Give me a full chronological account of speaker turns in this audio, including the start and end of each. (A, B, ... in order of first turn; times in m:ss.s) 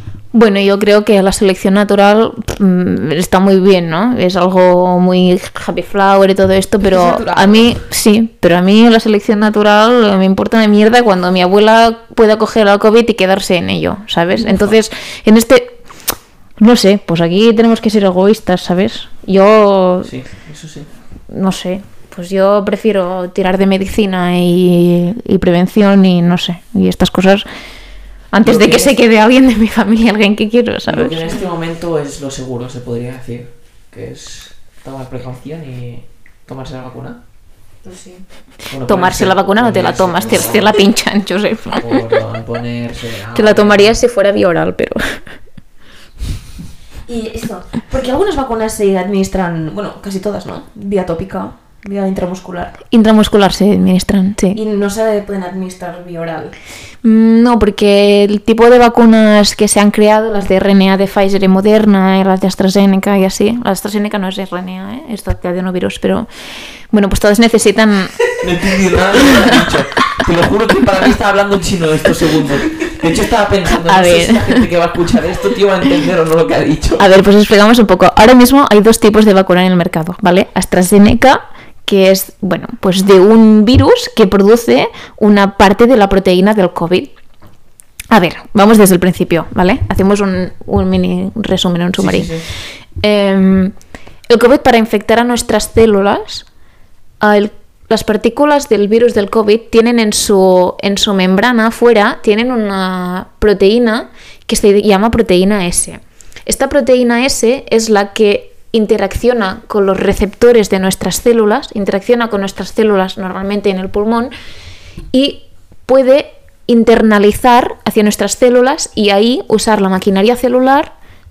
0:00.3-0:15.8 A
0:06.8-0:07.7 B
0:14.4-0:14.7 C
0:16.6-0:20.1 A
0:20.0-0:20.9 C
0:21.3-0:27.5 A
0:28.3-0:31.2 A
0:28.4-0:28.9 C
0:30.9-0:37.2 C
0:37.8-0:38.2 B
0:38.7-0:40.8 C
0:38.8-0:42.2 A
0:41.7-0:44.0 C
0:43.3-0:45.2 A
0:47.0-0:52.8 B
0:52.9-0:54.6 A
0:54.5-0:56.5 B
0:57.0-1:06.3 A
1:06.9-1:08.2 A
1:08.4-1:17.0 C
1:09.3-1:09.6 A
1:13.7-1:14.6 A
1:17.0-1:27.1 A
1:28.1-1:32.4 A
1:32.0-1:32.5 C
1:33.0-1:33.7 A
1:34.3-1:36.4 A
1:37.2-1:54.3 A
1:55.1-2:00.9 A